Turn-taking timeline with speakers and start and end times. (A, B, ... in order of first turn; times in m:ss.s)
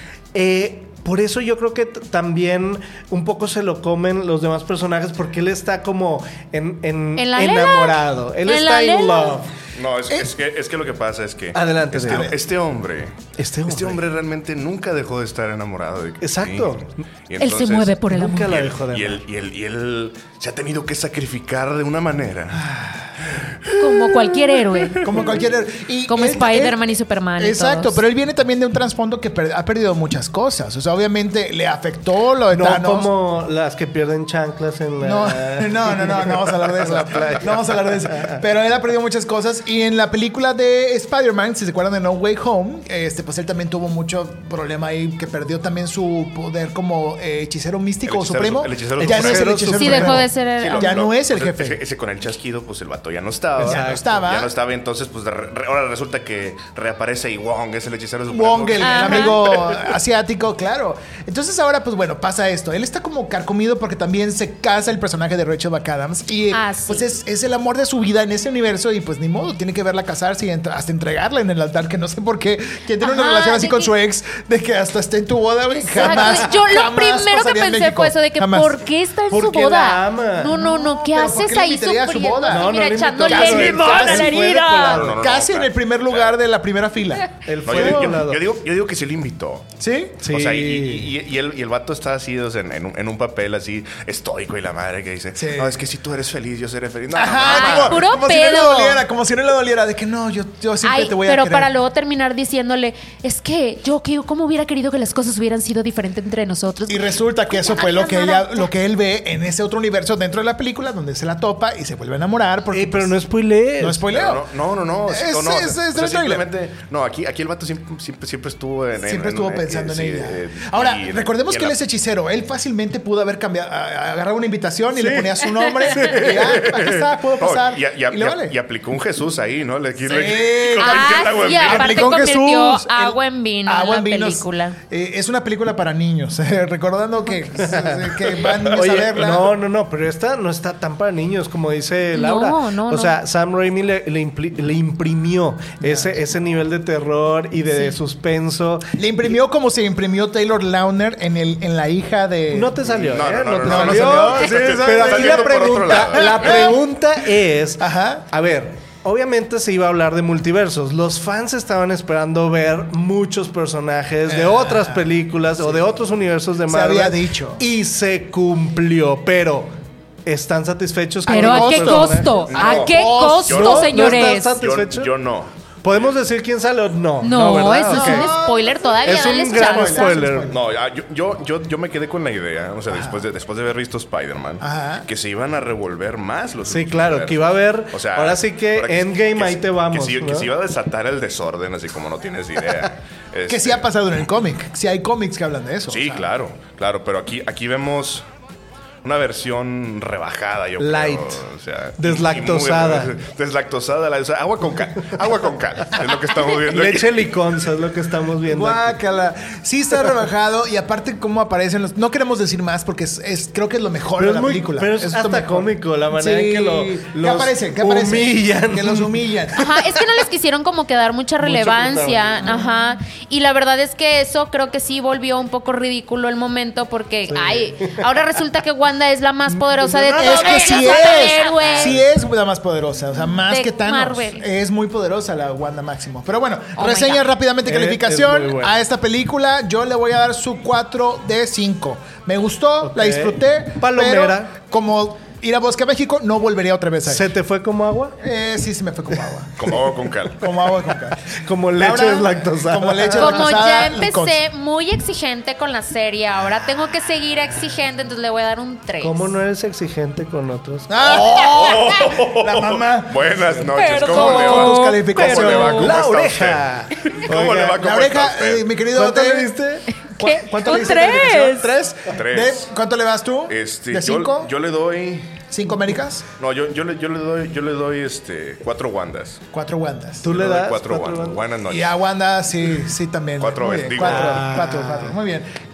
0:00.3-0:09.5 A
0:07.2-0:09.4 B
0:09.7-0:16.7 C
0:11.5-0:12.3 A
0:12.1-0:12.4 D
0:13.4-0:14.0 A
0:16.2-0:16.9 A
0:17.3-0:22.7 C
0:17.4-0:18.5 B
0:18.0-0:19.2 A
0:22.5-0:23.3 D
0:23.3-0:23.7 C
0:23.8-0:25.0 B
0:25.0-0:33.1 D
0:26.1-0:28.0 B
0:32.5-0:38.4 A
0:35.0-0:51.8 D
0:48.0-0:49.9 C
0:49.0-0:50.3 A
0:49.7-0:50.9 B
0:50.4-0:59.9 C
0:53.6-0:54.0 A
0:53.6-0:54.5 D
0:58.3-1:18.8 D
0:58.8-0:59.4 B
1:06.5-1:07.0 B
1:13.0-1:13.9 B
1:15.7-1:25.0 B
1:16.0-1:16.4 A
1:19.3-1:20.6 A
1:20.5-1:28.2 D
1:22.5-1:25.2 A
1:24.8-1:26.4 C
1:27.4-1:28.4 A
1:27.6-1:29.7 C
1:29.8-1:30.2 D
1:30.2-1:31.1 A
1:30.2-1:38.0 C
1:35.4-1:35.8 D
1:37.1-1:41.7 D
1:37.4-1:39.0 B
1:40.8-1:48.7 B
1:46.9-1:53.2 D
1:52.7-1:54.0 A
1:53.8-1:54.4 D
1:54.1-2:01.8 C
1:55.0-1:56.5 D
1:59.0-2:08.6 D
2:04.9-2:05.4 A
2:05.9-2:06.4 A
2:06.0-2:12.2 C
2:10.0-2:19.5 D
2:10.8-2:14.8 B
2:17.6-2:18.0 A
2:18.6-2:28.9 A
2:22.1-2:23.2 B
2:25.8-2:26.1 D
2:29.0-2:32.8 D
2:32.5-2:49.7 A
2:32.8-2:36.7 C
2:33.6-2:36.8 D
2:37.8-2:38.2 D
2:44.2-2:45.8 D
2:46.7-2:47.6 D
2:50.2-2:52.7 A
2:51.2-2:53.8 D
2:51.3-2:54.6 B
2:52.5-2:55.5 C
2:53.5-2:55.1 A
2:55.8-2:58.3 A
2:57.2-3:00.3 B
2:57.9-3:00.6 D
2:59.0-3:00.5 A
3:00.5-3:13.8 C
3:02.9-3:03.2 D
3:04.6-3:05.1 D
3:06.7-3:10.5 A
3:13.5-3:16.3 D
3:15.9-3:18.2 C
3:19.0-3:27.3 C
3:20.8-3:21.4 A
3:22.0-3:23.1 A
3:26.6-3:28.9 A
3:28.4-3:39.7 D
3:34.2-3:39.8 A
3:39.6-3:52.0 B
3:41.4-3:42.6 A
3:47.3-3:48.0 A
3:49.5-3:52.0 A
3:50.1-4:07.3 D
3:53.5-3:54.4 B
3:56.8-3:57.2 B
3:57.6-3:58.8 A
4:02.8-4:04.5 A
4:07.0-4:08.2 A
4:08.2-4:09.8 D
4:09.6-4:10.5 C
4:10.4-4:14.4 D
4:11.3-4:13.5 A
4:13.2-4:19.3 B
4:19.0-4:21.0 A
4:20.9-4:26.0 D
4:21.0-4:28.7 C
4:23.8-4:25.0 B
4:25.1-4:27.8 A
4:27.8-4:29.5 D
4:28.9-4:31.4 A
4:30.2-4:31.7 B
4:30.2-4:34.5 D
4:32.1-4:32.7 C
4:33.5-4:35.4 C
4:35.5-4:36.2 D
4:36.4-4:39.4 C
4:39.5-4:40.3 D
4:40.2-4:41.4 A
4:40.2-4:42.0 C
4:41.7-4:45.5 D
4:43.4-4:44.5 C
4:44.0-4:45.2 A